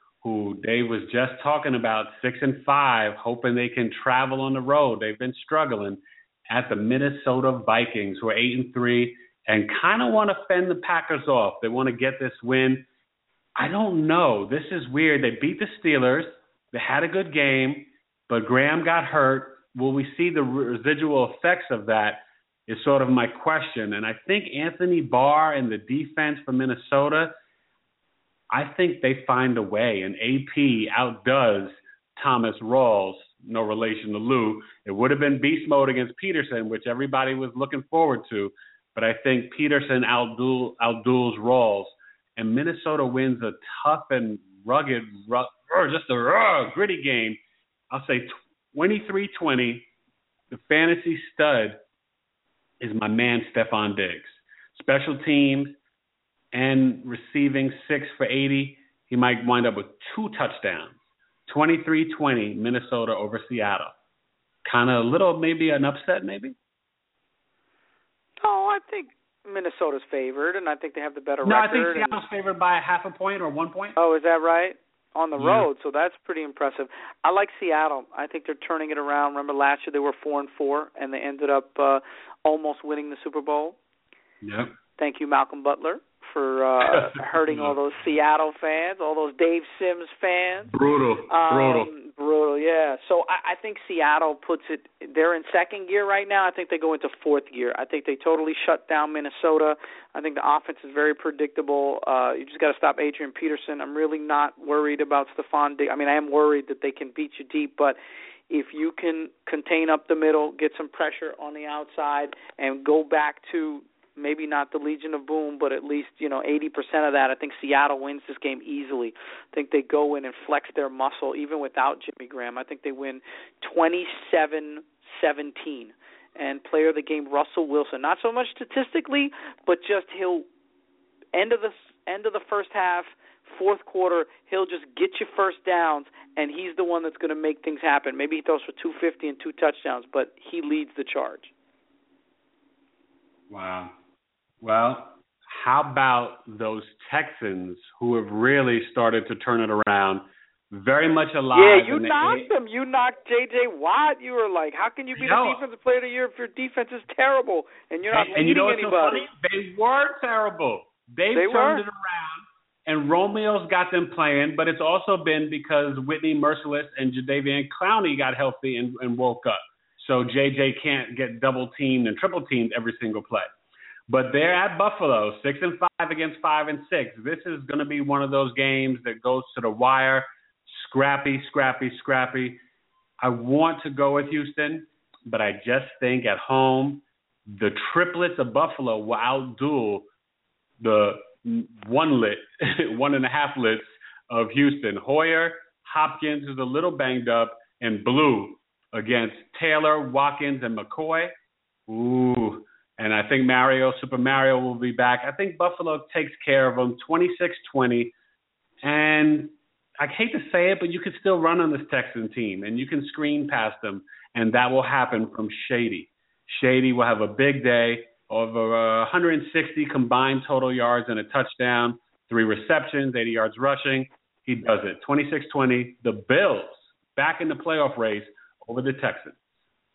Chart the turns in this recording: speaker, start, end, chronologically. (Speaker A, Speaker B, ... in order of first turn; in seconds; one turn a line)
Speaker A: 0.2-12.8
Speaker A: 13.6-27.3
Speaker A: 28.5-47.4
Speaker A: 47.9-49.9
Speaker A: 50.5-51.8
Speaker A: 52.8-55.8
Speaker A: 56.5-60.9
Speaker A: 61.5-63.9
Speaker A: 64.6-66.5
Speaker B: 68.4-72.2
Speaker A: 71.4-74.0
Speaker B: 74.0-83.8
Speaker A: 75.4-75.7
Speaker A: 84.4-84.7
Speaker B: 85.0-90.7
Speaker A: 86.9-87.7
Speaker A: 90.7-91.9
Speaker B: 91.3-108.0
Speaker B: 108.5-130.4
Speaker B: 131.3-141.5
Speaker A: 143.5-143.9
Speaker A: 144.6-152.5
Speaker B: 151.5-159.2
Speaker A: 155.2-155.6
Speaker A: 158.1-173.5
Speaker B: 161.3-161.8
Speaker A: 174.1-182.6
Speaker A: 183.2-190.0
Speaker A: 190.8-201.3
Speaker A: 201.9-208.1
Speaker A: 208.8-229.4